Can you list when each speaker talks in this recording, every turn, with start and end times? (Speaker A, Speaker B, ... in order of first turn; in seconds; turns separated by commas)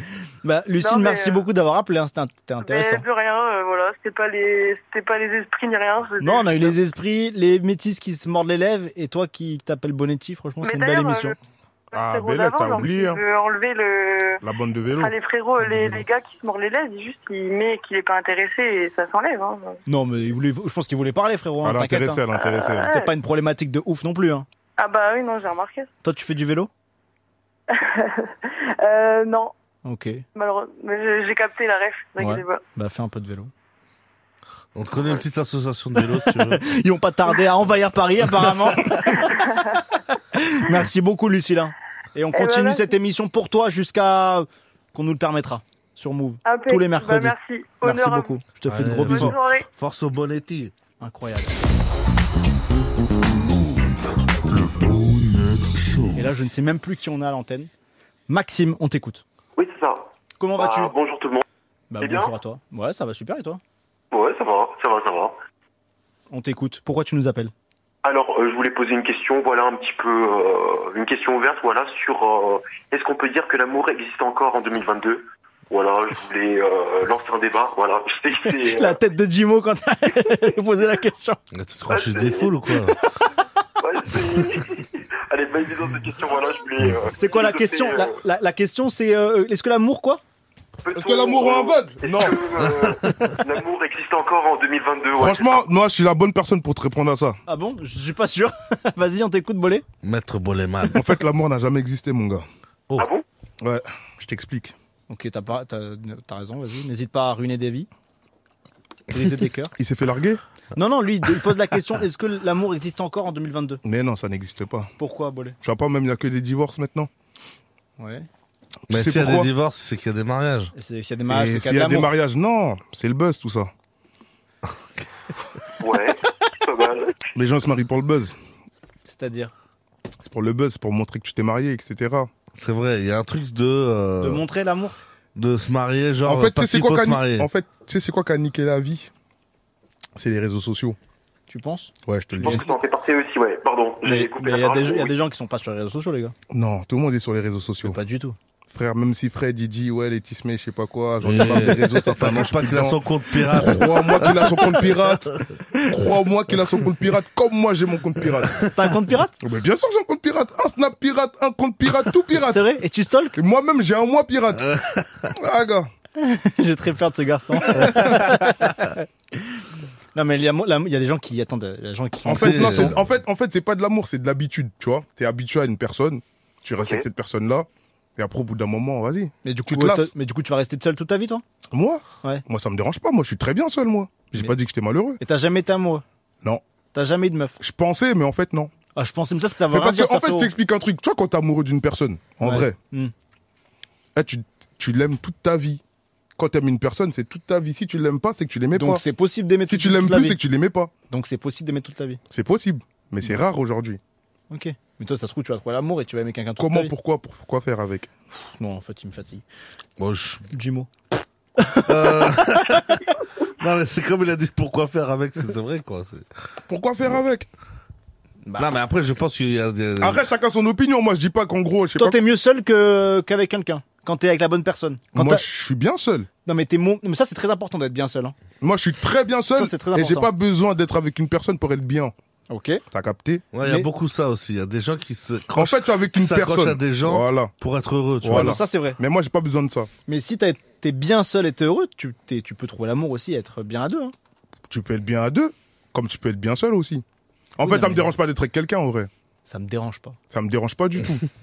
Speaker A: 0.4-3.0, Speaker B: 0.8-1.5, Speaker B: 2.6-6.8, Speaker A: 6.2-11.3, Speaker B: 10.6-11.4, Speaker C: 11.9-13.2, Speaker B: 11.9-14.4, Speaker C: 14.4-15.1, Speaker B: 14.9-19.8, Speaker A: 19.9-22.2, Speaker C: 21.6-22.9, Speaker B: 22.4-23.1, Speaker A: 22.8-24.4, Speaker B: 24.8-25.9, Speaker A: 26.0-26.7, Speaker B: 27.7-29.5, Speaker A: 29.9-30.2, Speaker B: 30.4-32.6, Speaker A: 32.2-33.5, Speaker D: 34.7-36.6, Speaker A: 36.0-39.3, Speaker B: 39.1-39.8, Speaker A: 40.3-49.4, Speaker B: 42.3-42.9, Speaker B: 46.4-48.4, Speaker D: 48.7-50.7, Speaker B: 49.0-49.6, Speaker A: 51.0-51.5, Speaker A: 56.1-57.7, Speaker A: 58.3-59.2, Speaker E: 59.5-61.4, Speaker A: 60.4-60.9, Speaker A: 61.9-63.6, Speaker E: 62.0-62.3, Speaker E: 64.1-65.4, Speaker A: 66.3-67.5, Speaker E: 68.0-79.0, Speaker A: 78.4-81.4, Speaker D: 81.5-83.0, Speaker E: 81.9-82.5, Speaker E: 83.8-88.1, Speaker A: 87.2-90.2, Speaker E: 90.8-95.6, Speaker C: 90.9-92.4, Speaker D: 92.7-93.4, Speaker C: 95.1-97.4, Speaker A: 97.5-99.8, Speaker D: 100.0-101.0, Speaker C: 100.9-102.4, Speaker E: 103.0-103.2, Speaker C: 103.6-104.7, Speaker A: 105.1-107.9, Speaker A: 109.1-109.7, Speaker C: 109.8-110.4, Speaker A: 110.7-113.8, Speaker C: 113.8-114.9, Speaker A: 115.0-115.5, Speaker C: 115.6-117.1, Speaker A: 118.0-118.3, Speaker C: 118.9-119.5, Speaker D: 118.9-120.7, Speaker A: 120.7-122.1, Speaker C: 121.3-123.7, Speaker D: 124.7-125.0, Speaker E: 125.8-127.1, Speaker C: 127.3-128.3, Speaker A: 129.1-129.5, Speaker C: 130.2-132.3, Speaker D: 132.5-134.4, Speaker A: 134.2-135.0, Speaker D: 135.3-137.5, Speaker C: 136.2-139.1, Speaker C: 140.2-141.0, Speaker A: 141.5-141.9, Speaker C: 142.1-142.7, Speaker E: 142.4-145.1, Speaker A: 144.0-146.3, Speaker C: 146.5-148.0, Speaker A: 147.8-148.3, Speaker C: 148.7-158.7, Speaker D: 151.2-155.0, Speaker D: 158.4-158.7, Speaker A: 158.7-159.3, Speaker C: 159.4-162.7, Speaker A: 162.4-163.4, Speaker C: 163.3-164.7, Speaker D: 164.6-165.3, Speaker C: 165.3-165.9, Speaker A: 166.2-169.1, Speaker C: 167.6-168.1, Speaker D: 167.8-168.2, Speaker A: 170.1-172.9, Speaker C: 172.3-180.1, Speaker D: 172.3-173.0, Speaker E: 176.8-177.1, Speaker A: 179.4-181.4, Speaker C: 181.7-185.2, Speaker A: 185.2-186.0, Speaker A: 186.9-187.6, Speaker C: 187.6-188.7, Speaker A: 188.9-190.5, Speaker C: 189.7-192.8, Speaker A: 192.4-193.1, Speaker C: 194.2-195.8, Speaker C: 196.4-199.0, Speaker A: 198.7-200.4, Speaker C: 199.7-200.9, Speaker A: 201.1-202.2, Speaker C: 202.3-204.0, Speaker A: 204.5-206.9, Speaker C: 206.6-208.1, Speaker A: 208.5-209.4, Speaker D: 210.0-210.5, Speaker A: 210.5-210.9, Speaker A: 211.6-213.1, Speaker D: 211.8-213.0, Speaker D: 213.6-216.2, Speaker C: 216.7-217.5, Speaker D: 218.6-220.2, Speaker C: 220.0-222.2, Speaker A: 221.9-225.4, Speaker C: 225.1-226.3, Speaker A: 226.4-228.3, Speaker C: 228.6-232.1, Speaker A: 229.6-230.3, Speaker A: 232.5-232.8, Speaker C: 232.9-233.4, Speaker D: 233.5-238.6, Speaker C: 235.5-237.5, Speaker C: 238.2-239.9, Speaker A: 238.2-239.0, Speaker A: 240.1-244.1, Speaker C: 244.7-247.0, Speaker C: 247.6-249.1, Speaker A: 247.6-248.1, Speaker A: 249.4-250.2, Speaker C: 250.3-251.2